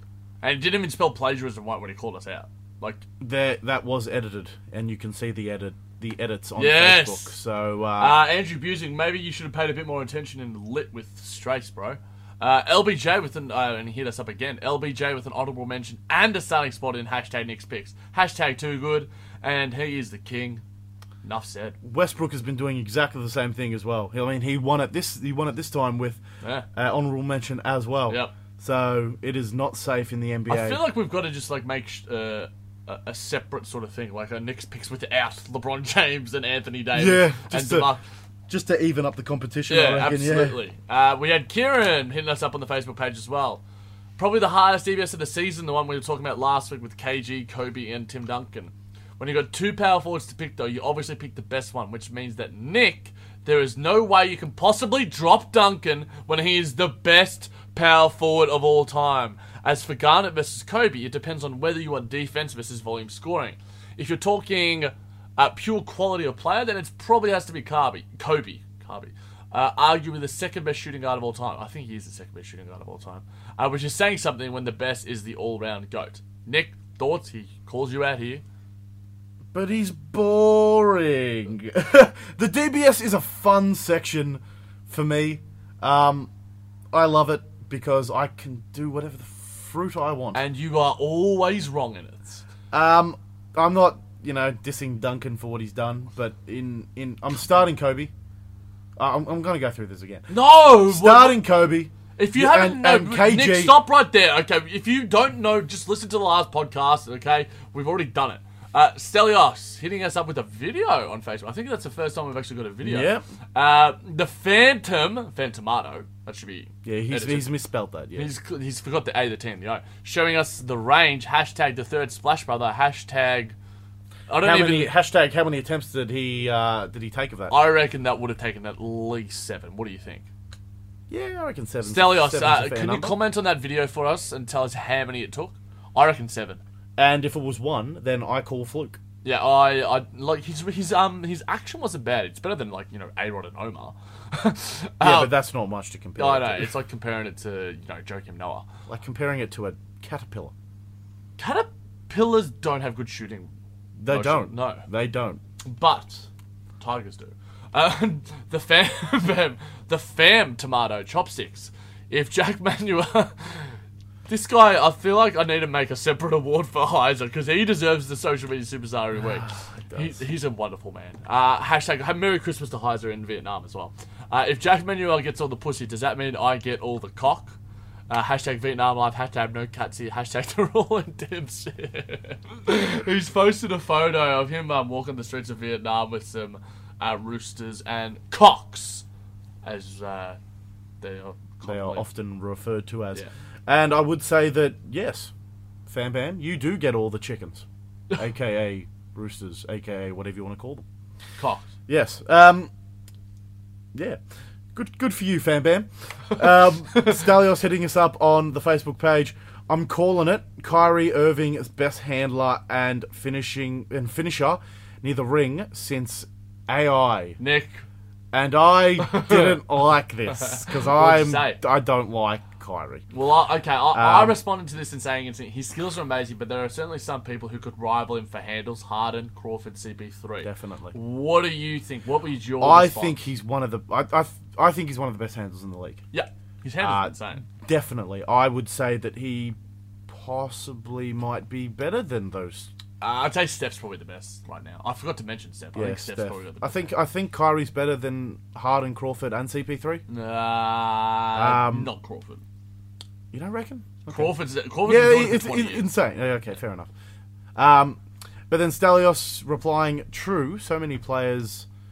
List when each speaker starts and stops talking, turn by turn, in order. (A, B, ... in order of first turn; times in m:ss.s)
0:00.4-0:03.1 A
0:03.2-0:08.2 B
0:06.6-0:07.4 A
0:08.0-0:20.6 A
0:21.2-0:21.8 A
0:21.8-0:26.2 B
0:26.7-0:30.8 B
0:28.1-0:28.3 A
0:30.5-0:38.0 A
0:37.0-0:37.9 B
0:38.5-0:40.6 B
0:39.7-0:43.6 A
0:44.2-1:18.4 A
1:19.5-1:26.3 B
1:26.9-1:30.4 B
1:30.3-1:32.4 A
1:32.7-1:38.1 B
1:39.0-1:43.8 B
1:40.3-1:41.4 A
1:42.2-1:57.5 A
1:52.8-1:53.2 B
1:56.8-1:58.3 B
1:58.2-2:03.6 A
2:04.3-2:04.9 A
2:04.4-2:07.6 B
2:07.5-2:10.3 A
2:11.1-2:13.2 B
2:11.8-2:16.6 A
2:17.0-2:19.0 B
2:19.2-2:25.3 A
2:25.0-2:26.7 B
2:26.2-2:28.7 A
2:28.9-2:30.5 B
2:31.4-2:33.5 A
2:34.0-2:35.4 B
2:34.1-2:34.9 A
2:35.6-2:36.2 A
2:36.8-2:57.6 A
2:49.3-2:50.2 B
2:58.1-3:09.1 A
3:09.6-3:10.4 A
3:11.0-3:12.1 A
3:11.6-3:15.3 B
3:15.9-3:17.6 B
3:18.2-3:20.8 B
3:21.4-3:21.7 A
3:21.9-3:22.7 B
3:23.9-3:24.2 B
3:24.7-3:37.4 B
3:37.4-3:37.8 A
3:38.3-3:43.0 B
3:39.0-3:39.6 A
3:40.3-3:41.6 A
3:43.1-3:53.2 A
3:43.9-3:44.4 B
3:50.4-3:51.0 B
3:52.6-3:56.0 B
3:56.1-3:57.5 A
3:56.8-3:59.6 B
4:00.1-4:02.7 B
4:03.0-4:06.9 A
4:05.8-4:10.0 B
4:10.1-4:12.4 A
4:11.4-4:11.9 B
4:13.3-4:16.9 B
4:14.1-4:15.9 A
4:17.6-4:18.0 B
4:18.5-4:21.7 B